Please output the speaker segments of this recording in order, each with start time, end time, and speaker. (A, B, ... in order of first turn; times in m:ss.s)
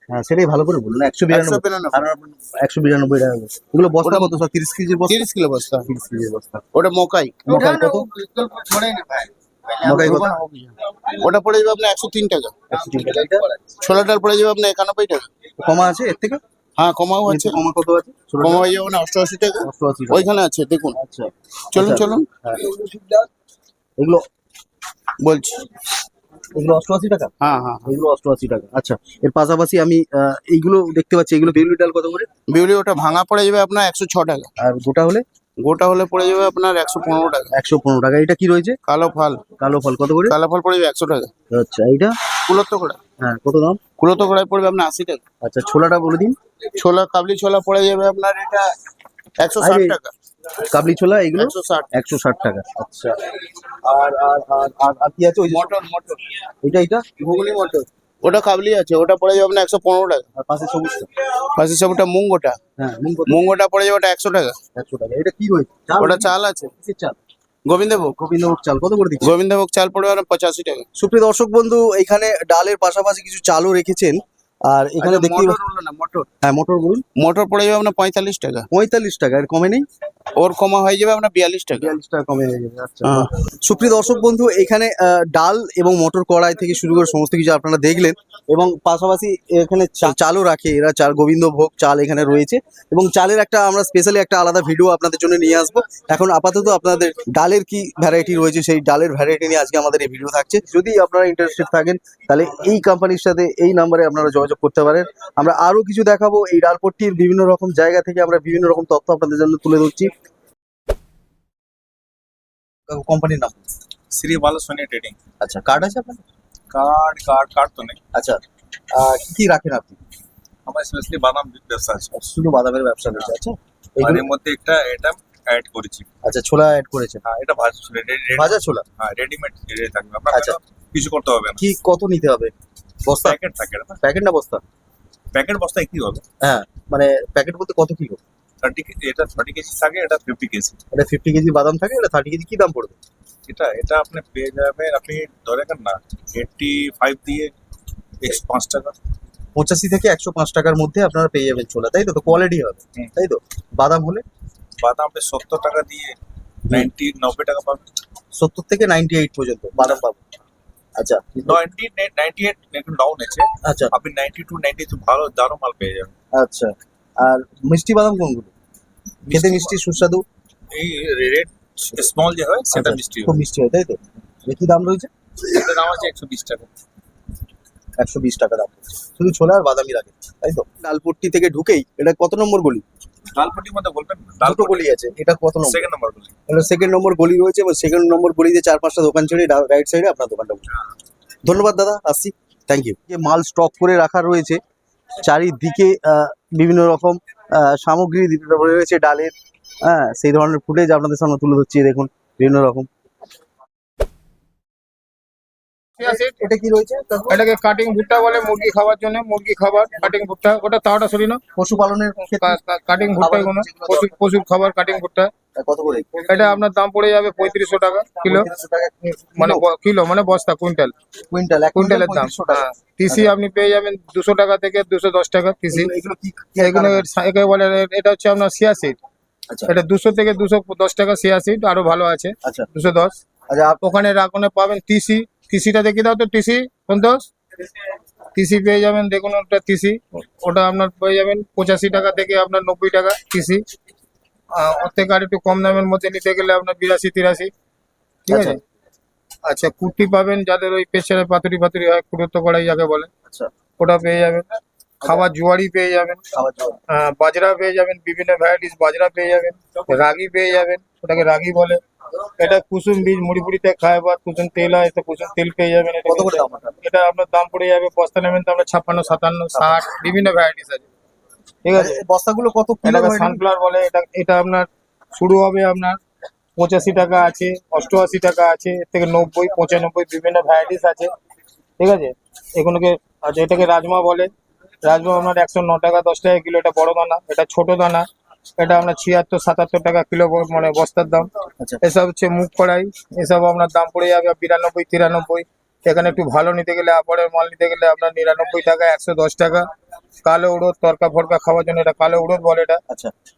0:00.1-0:05.3 A
0:01.3-0:02.0 B
0:04.0-0:04.4 B
0:05.1-0:05.9 B
0:05.8-0:06.6 A
0:06.7-0:12.6 B
0:07.5-0:08.1 A
0:09.8-0:10.4 A
0:12.7-0:13.5 A
0:13.8-0:15.3 B
0:15.6-0:16.4 A
0:16.8-0:17.6 B
0:17.3-0:18.7 A
0:18.4-0:21.0 B
0:19.6-0:20.3 A
0:20.9-0:23.1 A
0:21.7-0:22.3 B
0:24.0-0:24.2 A
0:25.2-0:25.6 B
0:26.5-0:27.3 A
0:27.4-0:27.9 B
0:27.8-0:32.3 A
0:32.5-0:34.5 B
0:34.6-0:35.2 A
0:35.6-0:37.5 B
0:37.5-0:38.8 A
0:38.9-0:39.4 B
0:39.6-0:40.4 A
0:40.3-0:41.3 B
0:41.5-0:42.2 A
0:42.5-0:43.0 B
0:43.2-0:43.8 A
0:44.0-0:45.2 B
0:45.4-0:46.4 A
0:46.8-0:48.7 B
0:49.4-0:50.1 B
0:49.6-0:50.0 A
0:50.7-0:53.2 A
0:51.4-0:51.9 B
0:53.8-0:55.7 A
0:55.5-0:56.3 B
0:56.6-0:57.8 A
0:57.4-1:00.2 B
1:00.4-1:01.1 A
1:01.6-1:02.6 B
1:02.8-1:03.4 A
1:03.3-1:04.6 B
1:04.8-1:07.2 A
1:06.0-1:06.7 B
1:07.7-1:08.2 B
1:08.2-1:09.4 A
1:09.2-1:10.9 B
1:11.0-1:15.6 A
1:15.0-1:16.3 B
1:16.4-1:17.0 A
1:17.2-1:18.7 B
1:18.7-1:19.8 A
1:20.4-1:21.9 B
1:21.8-1:50.1 A
1:23.0-1:23.3 B
1:52.9-1:53.6 A
1:54.1-1:55.2 C
1:55.4-1:56.2 A
1:56.7-1:58.0 C
1:58.1-1:58.4 A
1:58.9-2:00.0 A
2:00.7-2:02.1 C
2:02.1-2:04.3 A
2:04.0-2:06.1 C
2:06.2-2:07.2 A
2:07.2-2:11.7 C
2:08.3-2:08.8 A
2:10.3-2:10.6 A
2:11.6-2:12.5 A
2:13.0-2:13.4 A
2:13.1-2:14.0 C
2:13.9-2:14.6 A
2:15.3-2:16.2 C
2:16.4-2:18.2 A
2:18.6-2:20.8 C
2:20.9-2:23.0 A
2:23.5-2:27.5 C
2:28.2-2:29.0 C
2:29.6-2:34.2 A
2:34.8-2:36.2 C
2:36.7-2:37.8 C
2:38.4-2:40.2 A
2:41.0-2:41.6 A
2:41.4-2:46.1 C
2:43.6-2:43.9 A
2:46.3-2:48.5 A
2:49.3-2:49.8 C
2:49.3-2:50.2 A
2:50.7-2:53.4 C
2:52.7-2:55.1 A
2:55.4-2:56.7 C
2:58.0-3:02.8 A
3:03.4-3:04.9 C
3:04.4-3:05.8 A
3:05.6-3:06.3 C
3:06.5-3:10.6 A
3:11.4-3:14.6 A
3:15.2-3:22.9 A
3:26.0-3:26.4 D
3:26.0-3:27.3 A
3:27.3-3:31.4 D
3:31.6-3:32.6 A
3:32.3-3:35.3 D
3:33.2-3:34.1 A
3:35.6-3:36.6 A
3:36.3-3:38.5 D
3:38.2-3:39.6 A
3:39.1-3:40.9 D
3:41.3-3:43.4 A
3:41.8-3:45.9 D
3:45.7-3:47.1 A
3:46.6-3:49.0 D
3:49.7-3:53.1 D
3:53.5-3:53.8 A
3:53.8-3:57.3 D
3:58.4-4:03.6 D
4:04.6-4:07.5 D
4:08.3-4:08.6 D
4:08.3-4:08.6 A
4:09.5-4:13.1 D
4:13.8-4:14.5 D
4:15.0-4:16.2 D
4:16.3-4:16.8 A
4:16.9-4:21.8 D
4:22.4-4:30.9 D
4:26.0-4:26.8 A
4:29.6-4:29.8 A
4:31.6-4:32.0 D
4:31.8-4:33.4 A
4:32.8-4:36.0 D
4:36.6-4:41.1 D
4:41.8-4:44.3 D
4:44.8-4:48.1 D
4:48.6-4:51.3 D
4:51.8-4:59.6 D
5:00.2-5:02.8 D